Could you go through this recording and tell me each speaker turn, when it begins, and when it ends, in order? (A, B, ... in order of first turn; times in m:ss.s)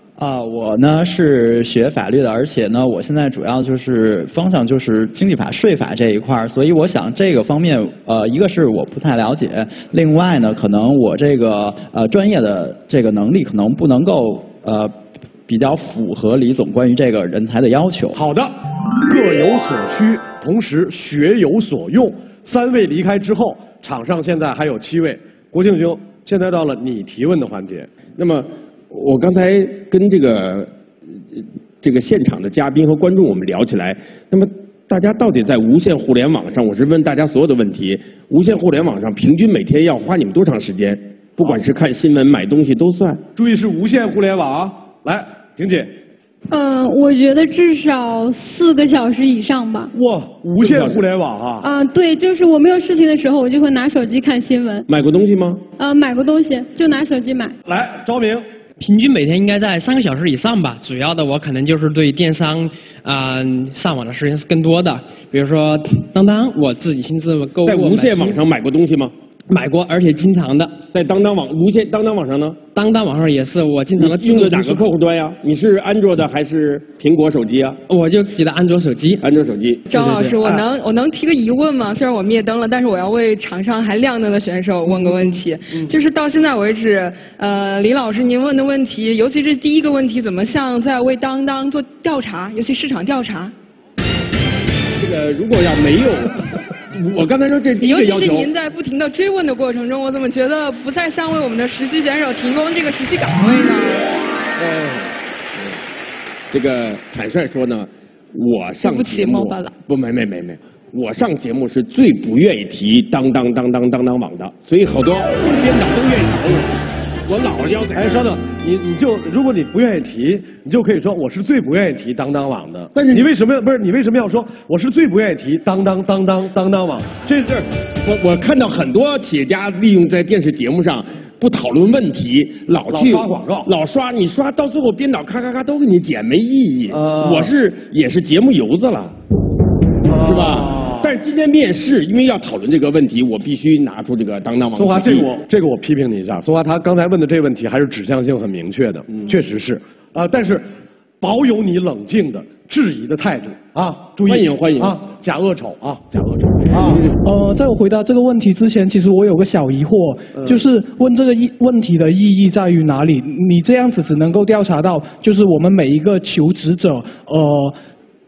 0:00.2-0:14.9 A
0:15.4-0:18.2 A
0:18.1-0:27.9 B
0:28.2-0:30.7 C
0:31.3-0:43.2 C
0:43.4-0:45.9 B
0:46.5-0:49.9 D
0:49.9-0:51.6 B
0:50.6-0:51.0 C
0:51.6-0:54.8 D
0:54.9-0:55.6 C
0:55.8-0:57.6 D
0:57.7-0:58.4 B
0:58.8-1:08.4 E
1:07.6-1:09.1 C
1:09.5-1:10.8 E
1:10.9-1:12.6 C
1:12.7-1:14.8 E
1:14.0-1:17.8 C
1:17.9-1:19.2 E
1:19.2-1:19.8 C
1:19.9-1:33.5 F
1:19.9-1:20.6 E
1:35.0-1:36.4 C
1:36.9-1:38.5 C
1:37.8-1:44.0 F
1:44.6-1:45.1 C
1:46.5-1:56.7 C
1:48.8-1:49.7 F
1:57.3-1:58.3 C
1:57.9-2:07.7 B
2:02.9-2:03.3 C
2:08.0-2:19.2 C
2:12.9-2:13.7 B
2:16.9-2:17.5 B
2:20.1-2:21.1 B
2:20.1-2:25.3 C
2:24.7-2:30.7 B
2:31.2-2:37.0 B
2:34.2-2:35.0 C
2:36.7-2:47.8 G